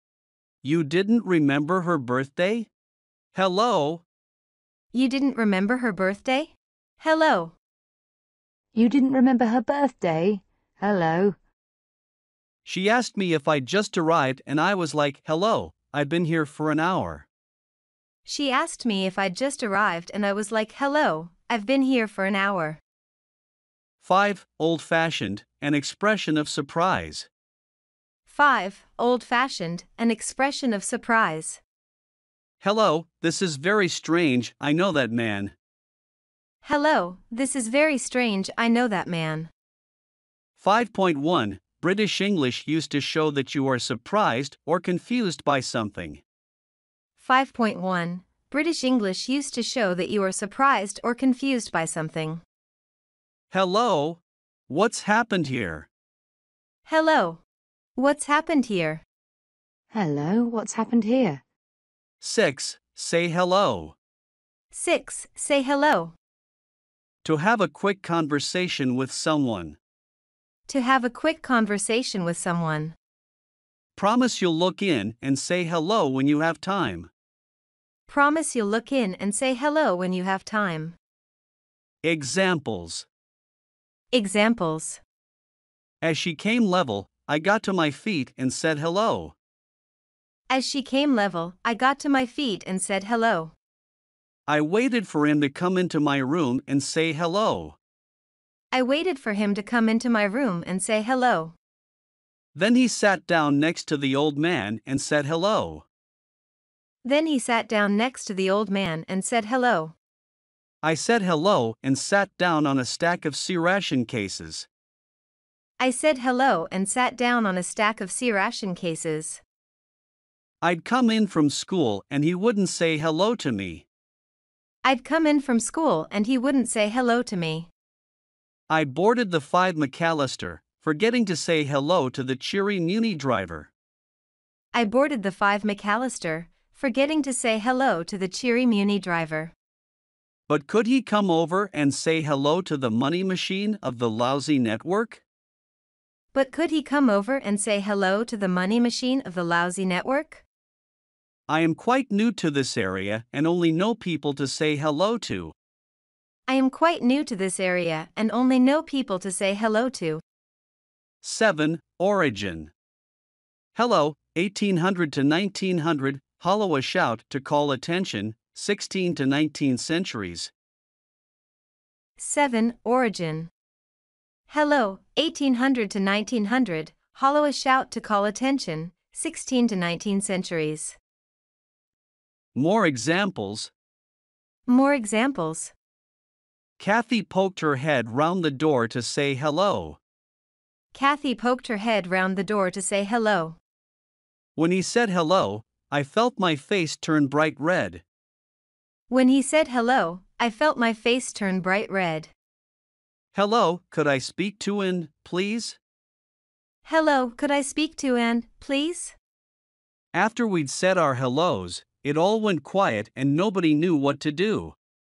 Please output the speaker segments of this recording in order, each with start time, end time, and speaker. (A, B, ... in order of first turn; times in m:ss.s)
0:00.6-0:02.7 A
0:03.3-0:04.0 A
0:04.9-0:07.5 B
0:08.7-0:11.4 C
0:12.6-0:17.2 A
0:18.2-0:22.8 B
0:24.0-0:27.3 A
0:28.3-0:31.6 B
0:32.6-0:35.5 A
0:36.6-0:39.5 B
0:40.6-0:46.2 A
0:47.2-0:52.4 B
0:53.5-0:55.9 A
0:56.8-0:57.4 B
0:58.0-0:59.0 B
0:59.9-1:01.4 C
1:02.2-1:03.9 A
1:04.7-1:06.1 B
1:07.2-1:09.8 A
1:10.7-1:12.9 B
1:14.0-1:17.1 A
1:18.1-1:21.0 B
1:22.0-1:23.0 A
1:24.1-1:25.0 B
1:26.0-1:29.3 A
1:30.5-1:33.5 B
1:34.5-1:37.8 A
1:38.7-1:41.6 B
1:42.5-1:45.8 A
1:47.0-1:49.9 B
1:50.8-1:54.7 A
1:55.8-1:59.4 B
2:00.6-2:03.8 A
2:04.8-2:07.7 B
2:08.7-2:13.7 A
2:14.7-2:19.5 B
2:20.5-2:25.2 A
2:26.3-2:30.4 B
2:31.5-2:35.5 A
2:36.5-2:40.2 B
2:41.2-2:42.7 A
2:43.7-2:50.5 A
2:52.2-2:53.5 B
2:54.5-3:01.0 B
3:02.5-3:03.7 A
3:04.7-3:05.7 B
3:06.8-3:10.0 A
3:10.9-3:13.6 B
3:14.6-3:18.0 A
3:19.1-3:22.3 B
3:23.3-3:25.8 A
3:26.8-3:29.2 B
3:30.1-3:34.7 A